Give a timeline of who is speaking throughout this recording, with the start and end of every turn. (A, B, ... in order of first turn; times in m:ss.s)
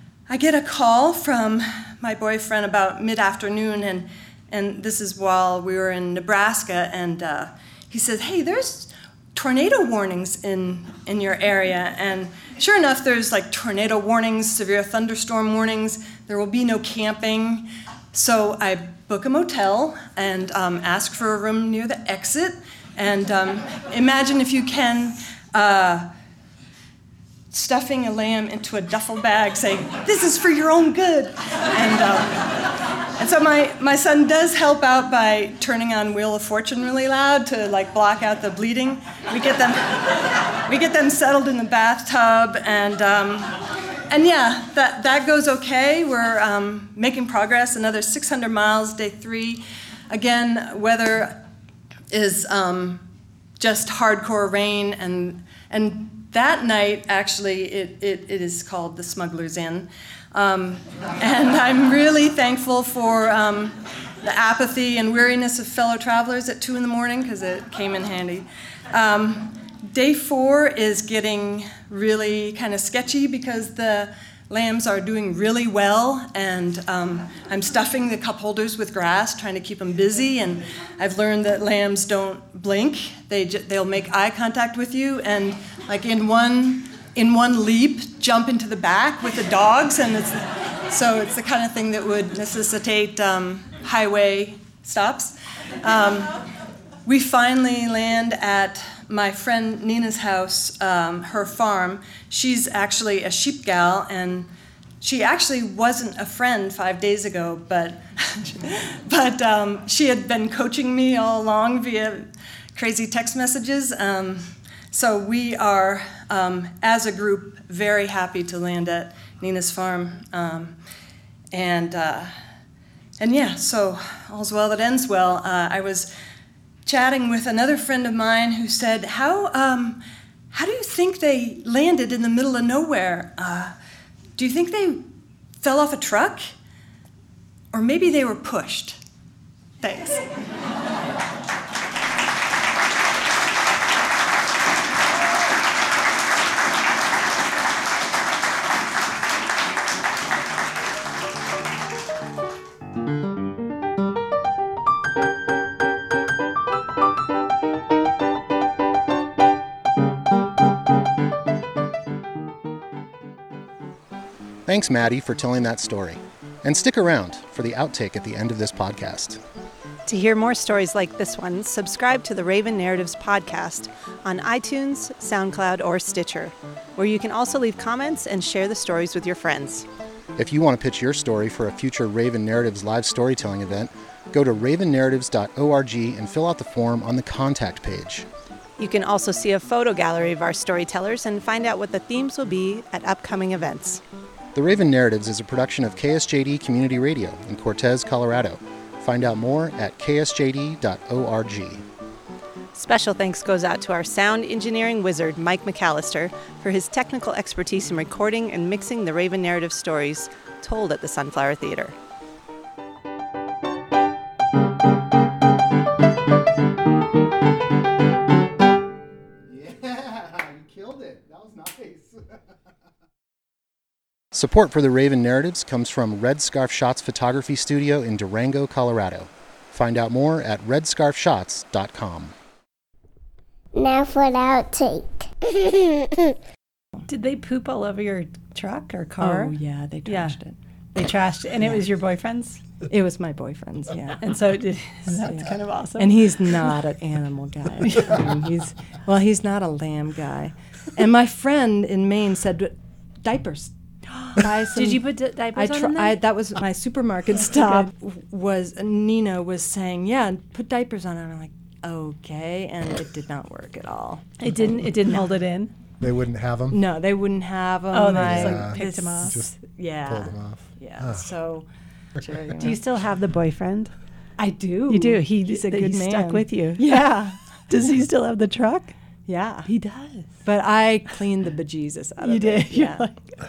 0:00.3-0:26.1 A
0:27.5-0:32.6 A
0:33.2-0:43.5 A
0:44.1-0:51.4 A
0:52.1-0:53.1 A
0:53.6-1:36.3 A
1:37.1-1:44.5 A
1:45.0-2:00.8 A
2:01.5-2:02.3 A
2:03.2-2:06.1 A
2:06.9-2:13.7 A
2:14.4-2:15.0 A
2:15.6-2:16.5 A
2:17.7-2:19.0 A
2:19.8-2:20.2 A
2:44.7-2:49.4 B
2:50.1-2:59.8 C
3:00.4-3:08.3 B
3:08.8-3:14.0 C
3:14.5-3:21.8 B
3:22.7-3:32.0 C
3:40.4-3:41.8 B
3:44.3-3:52.3 B
3:53.8-3:56.0 D
3:57.1-3:59.5 C
3:57.5-3:57.8 E
3:59.2-4:00.6 A
4:00.1-4:00.4 E
4:01.0-4:02.6 E
4:02.8-4:04.3 A
4:04.1-4:05.8 E
4:05.1-4:25.2 A
4:05.4-4:06.0 C
4:14.7-4:16.2 E
4:24.4-4:25.6 E
4:24.5-4:25.7 C
4:26.0-4:26.8 F
4:26.7-4:32.8 A
4:27.9-4:29.4 C
4:28.2-4:29.5 F
4:28.3-4:29.3 E
4:30.1-4:30.6 F
4:32.6-4:33.9 C
4:34.4-4:35.3 E
4:34.9-4:37.4 A
4:34.9-4:38.9 C
4:39.3-4:39.7 A
4:39.7-4:40.3 E
4:39.7-4:40.2 C
4:40.4-4:43.1 A
4:42.2-4:42.9 E